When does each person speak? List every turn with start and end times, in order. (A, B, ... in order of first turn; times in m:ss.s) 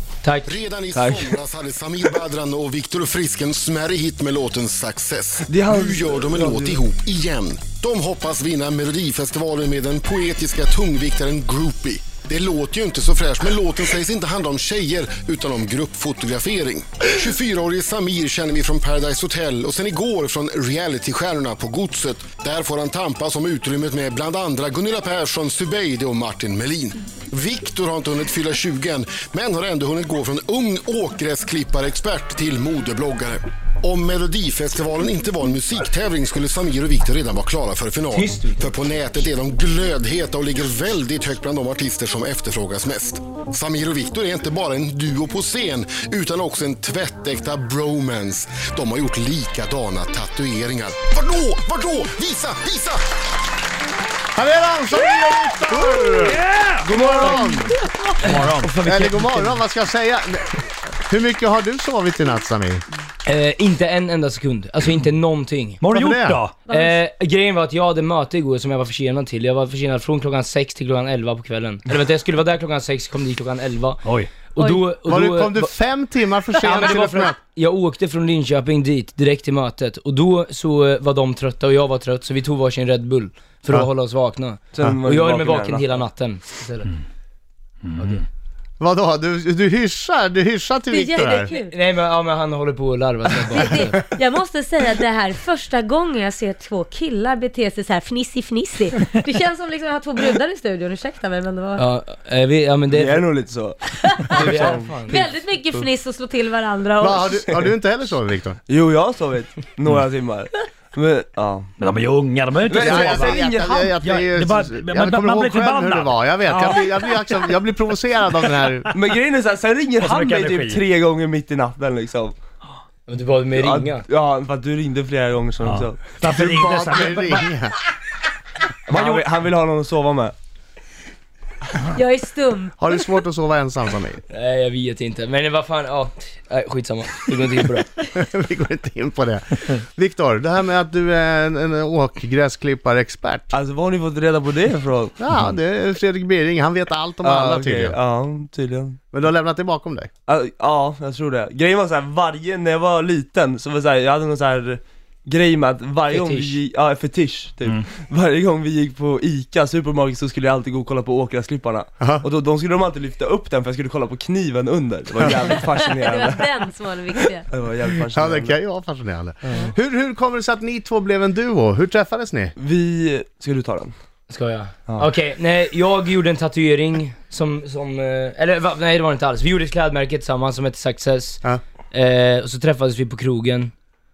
0:00.2-0:00.5 A
0:00.4-0:53.0 B
0:00.9-0:01.4 C
0:05.4-0:06.8 C
0:38.1-0:38.8 A
0:54.4-0:57.7 D
0:56.1-0:57.3 E
0:56.8-0:59.6 A
0:57.7-0:58.2 F
0:58.2-0:58.7 E
0:58.8-1:02.8 D
1:03.2-1:05.8 A
1:05.8-1:06.6 E
1:05.9-1:06.4 D
1:06.6-1:07.0 F
1:06.7-1:15.7 A
1:14.0-1:14.3 E
1:14.6-1:14.9 F
1:15.0-1:17.4 D
1:16.6-1:27.0 A
1:24.7-1:26.0 C
1:28.0-1:28.2 A
1:28.8-1:31.5 D
1:30.9-1:31.7 F
1:31.2-1:34.0 A
1:33.5-1:41.8 F
1:41.8-1:43.2 A
1:42.9-1:45.9 C
1:43.9-1:44.4 F
1:44.3-1:45.2 A
1:45.1-1:47.4 F
1:47.0-1:48.6 D
1:48.7-1:51.7 C
1:51.8-1:53.4 E
1:52.7-1:53.9 C
1:52.7-1:58.9 D
1:54.0-1:57.3 E
1:58.9-2:02.3 C
2:00.0-2:00.8 E
2:03.1-2:04.0 A
2:03.5-2:06.1 C
2:05.6-2:07.5 E
2:06.2-2:07.7 D
2:08.9-2:10.3 C
2:08.9-2:09.2 E
2:11.9-2:12.7 F
2:12.8-2:14.2 D
2:14.3-2:18.0 A
2:18.1-2:23.5 D
2:23.5-2:25.2 C
2:25.2-2:28.0 D
2:27.2-2:29.0 C
2:29.1-2:30.1 D
2:30.3-2:48.6 C
2:36.1-2:36.6 A
2:45.5-2:47.5 F
2:48.1-2:52.5 D
2:52.6-2:53.9 C
2:54.3-3:03.7 A